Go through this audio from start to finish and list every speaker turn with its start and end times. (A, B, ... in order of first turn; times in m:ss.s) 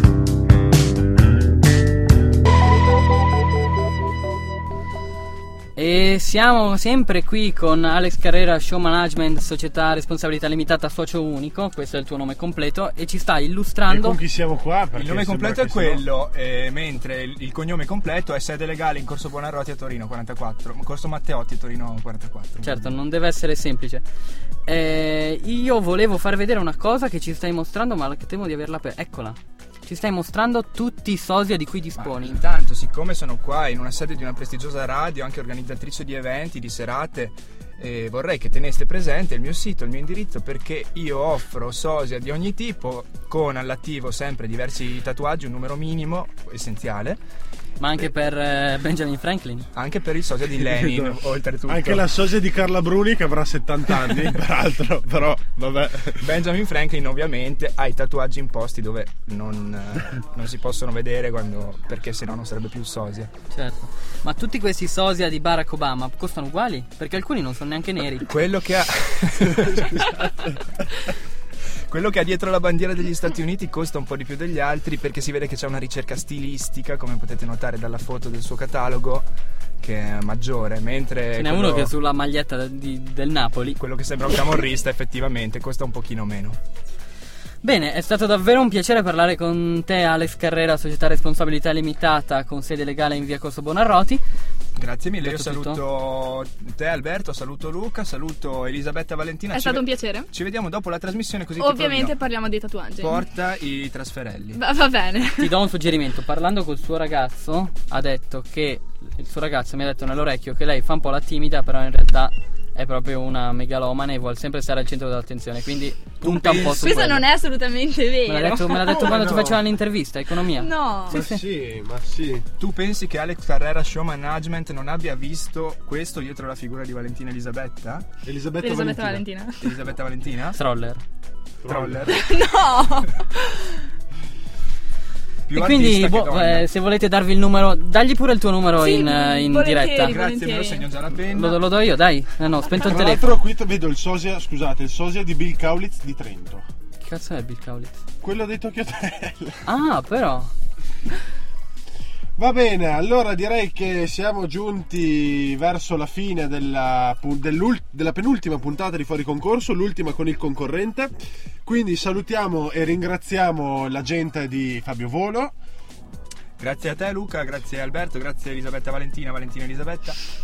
0:05.8-0:14.2 A
0:13.8-0:16.0 B
0:14.9-0:22.9 C
0:22.6-0:24.0 A
0:24.6-0:32.4 A
0:32.0-0:47.2 C
0:47.8-0:49.7 A
0:49.7-0:52.1 C
0:50.5-0:56.4 B
0:56.2-1:03.3 C
1:03.5-1:08.3 A
1:08.3-1:11.1 C
1:11.9-1:19.3 C
1:19.8-1:21.9 C
1:21.4-1:23.8 A
1:23.8-1:26.6 C
1:27.6-1:34.2 A
1:34.8-1:42.2 C
1:35.2-1:35.8 A
1:39.5-1:40.3 D
1:41.6-1:43.2 D
1:43.0-1:44.6 C
1:44.6-1:45.5 D
1:45.4-1:57.2 A
1:56.2-1:57.0 C
1:56.7-1:59.1 D
1:58.2-2:01.4 A
1:58.7-1:59.6 B
2:00.5-2:01.2 D
2:01.1-2:02.4 B
2:02.6-2:08.1 C
2:08.2-2:09.2 B
2:08.6-2:09.7 D
2:09.6-2:10.6 C
2:10.5-2:11.0 A
2:11.6-2:12.1 B
2:11.6-2:12.3 C
2:12.1-2:13.8 D
2:15.5-2:16.7 C
2:15.5-2:20.1 A
2:18.8-2:20.9 D
2:20.0-2:21.6 C
2:21.3-2:23.2 A
2:22.7-2:26.6 B
2:27.0-2:28.0 A
2:28.2-2:29.6 B
2:29.6-2:30.5 A
2:32.4-2:41.1 B
2:41.6-2:45.5 B
2:46.6-2:50.2 C